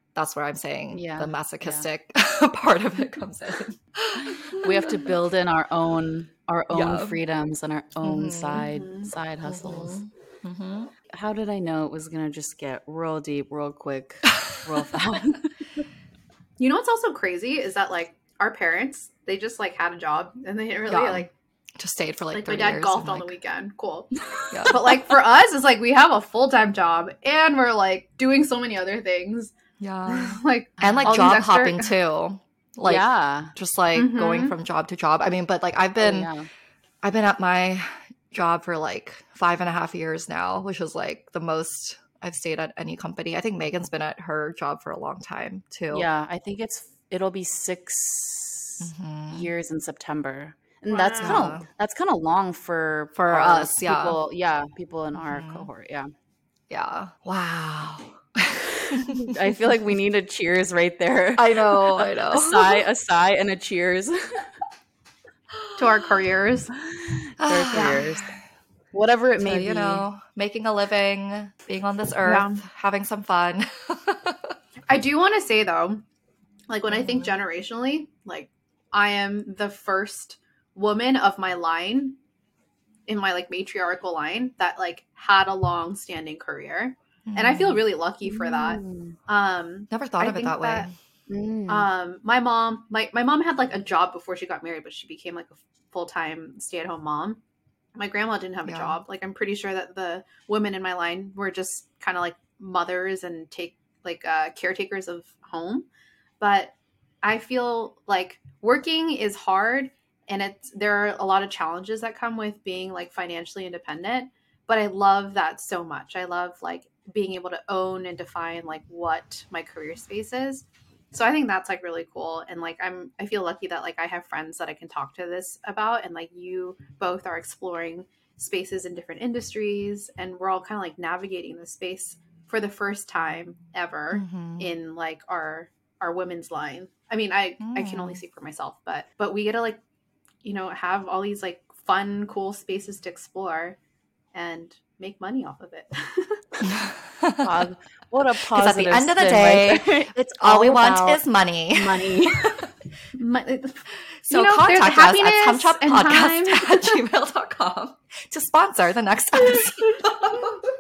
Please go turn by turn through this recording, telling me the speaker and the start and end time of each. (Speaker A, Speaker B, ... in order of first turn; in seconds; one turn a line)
Speaker A: 0.1-5.1
Speaker B: 0.9-1.9
Speaker B: 4.2-10.0
Speaker A: 6.7-7.2
Speaker A: 8.0-8.7
Speaker C: 8.6-9.1
Speaker A: 9.4-10.9
Speaker B: 11.1-15.5
Speaker C: 16.6-21.3
Speaker A: 20.9-23.4
Speaker C: 22.3-24.1
Speaker B: 24.4-24.7
Speaker A: 24.5-24.8
Speaker C: 24.7-29.5
Speaker A: 29.8-36.3
Speaker C: 30.1-31.9
Speaker B: 30.8-31.3
Speaker B: 32.9-33.5
Speaker C: 34.0-34.5
Speaker B: 36.0-36.5
Speaker A: 37.0-46.1
Speaker B: 45.9-56.1
Speaker A: 48.8-49.5
Speaker C: 50.9-51.5
Speaker A: 51.2-51.7
Speaker A: 53.1-54.2
Speaker A: 55.2-55.7
Speaker A: 56.7-59.3
Speaker B: 58.9-64.5
Speaker A: 61.4-62.8
Speaker A: 65.5-65.8
Speaker C: 65.8-66.7
Speaker B: 66.8-68.3
Speaker A: 67.4-68.4
Speaker C: 67.7-68.1
Speaker B: 68.9-70.0
Speaker A: 69.4-74.6
Speaker C: 72.2-72.6
Speaker C: 74.9-76.0
Speaker C: 76.7-82.2
Speaker A: 76.9-77.4
Speaker C: 83.1-90.9
Speaker A: 87.3-87.8
Speaker B: 88.3-89.2
Speaker A: 89.9-91.0
Speaker B: 91.3-91.9
Speaker C: 91.7-97.4
Speaker C: 98.0-105.9
Speaker A: 98.7-99.0
Speaker C: 106.4-139.8
Speaker A: 134.1-134.7
Speaker A: 137.6-138.2
Speaker C: 140.4-143.8
Speaker C: 144.3-146.4
Speaker A: 146.6-147.7
Speaker B: 147.4-152.7
Speaker A: 148.5-152.7
Speaker C: 153.2-157.0
Speaker A: 154.2-160.7